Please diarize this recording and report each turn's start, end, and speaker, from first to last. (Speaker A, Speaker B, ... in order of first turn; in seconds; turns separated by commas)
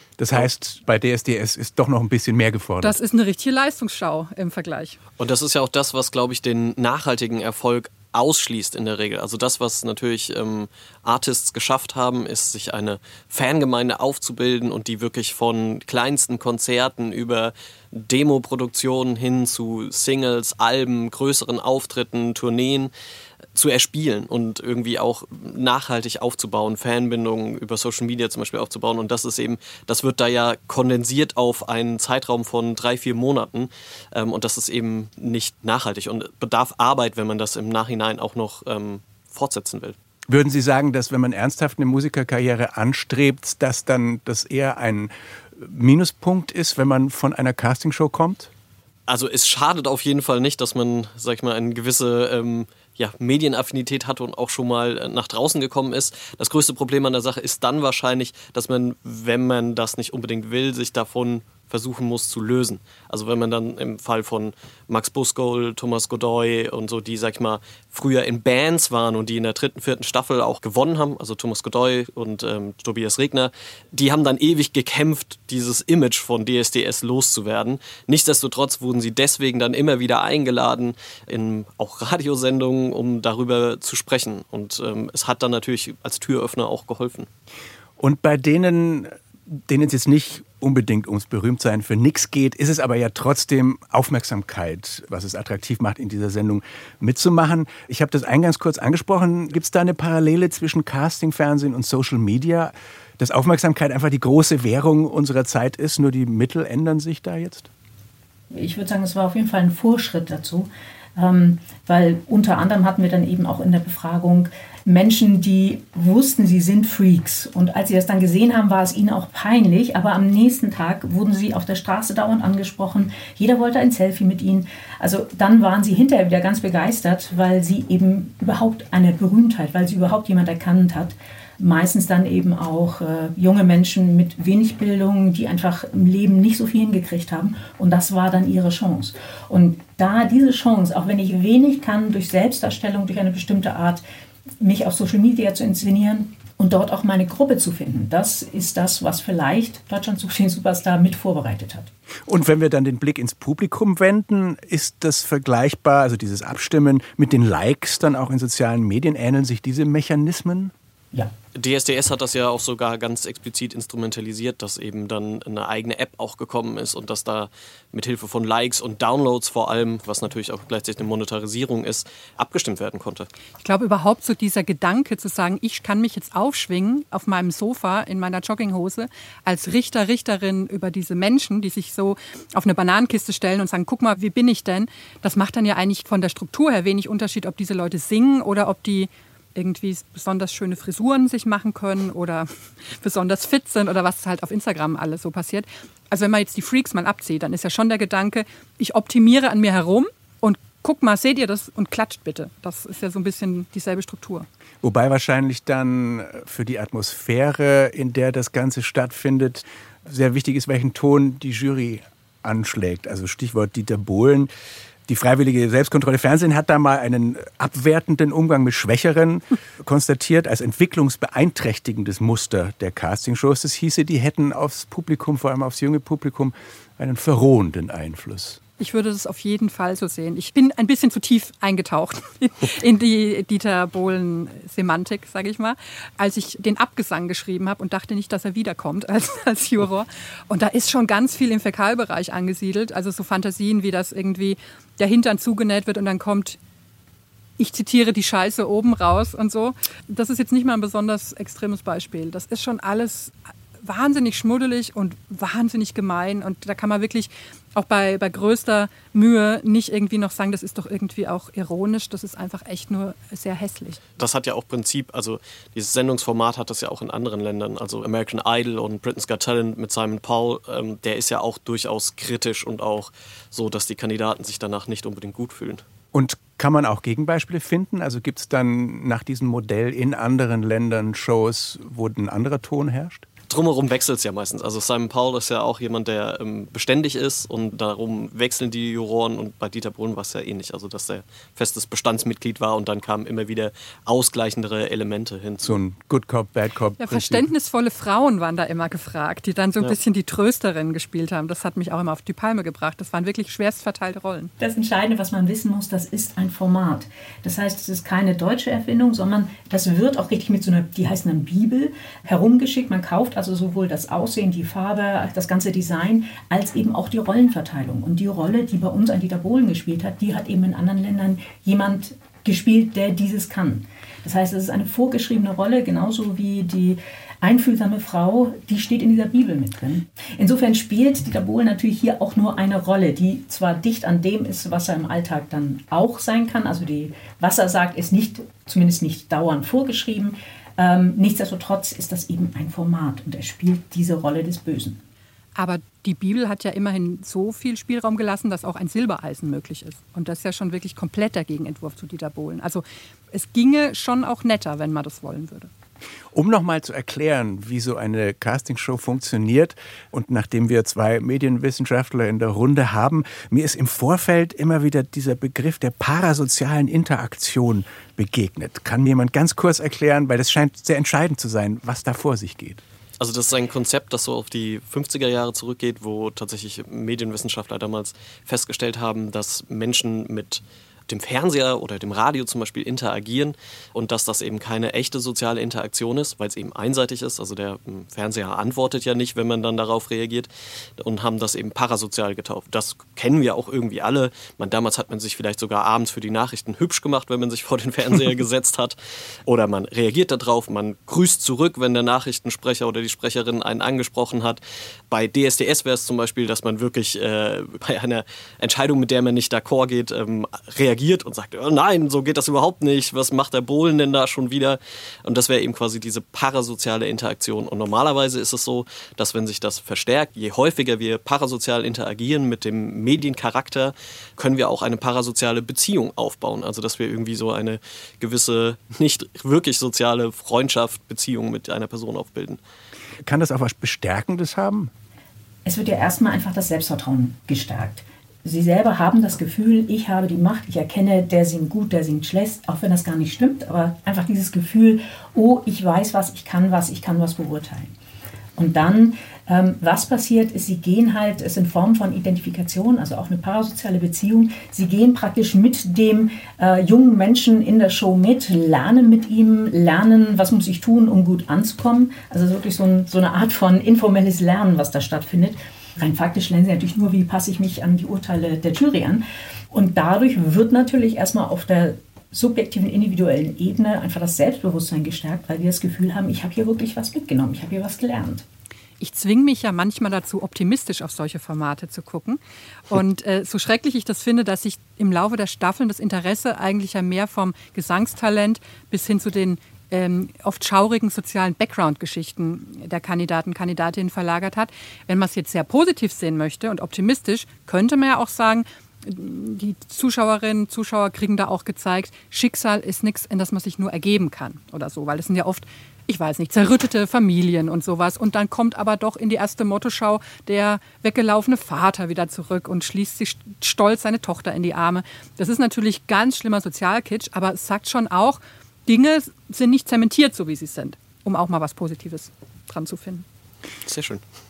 Speaker A: 0.2-3.0, Speaker B: 2.8-5.0, Speaker C: 5.2-22.9, Speaker C: 23.6-40.0, Speaker A: 40.3-48.5, Speaker C: 49.1-87.3, Speaker A: 88.0-107.7, Speaker D: 108.5-144.0, Speaker D: 144.6-151.9, Speaker A: 152.3-160.7, Speaker C: 161.6-173.3, Speaker B: 173.6-204.5, Speaker A: 204.8-214.5, Speaker A: 215.1-228.6, Speaker B: 228.8-246.6, Speaker B: 247.6-264.0, Speaker C: 264.2-275.8, Speaker A: 276.1-283.3, Speaker C: 283.5-295.8, Speaker A: 295.6-297.5, Speaker B: 297.0-304.5, Speaker D: 304.6-345.0, Speaker B: 345.6-355.7, Speaker A: 356.3-372.8, Speaker C: 373.2-432.6, Speaker A: 433.2-434.9, Speaker D: 435.6-447.9, Speaker D: 448.6-478.4, Speaker B: 479.0-523.2, Speaker C: 523.9-524.2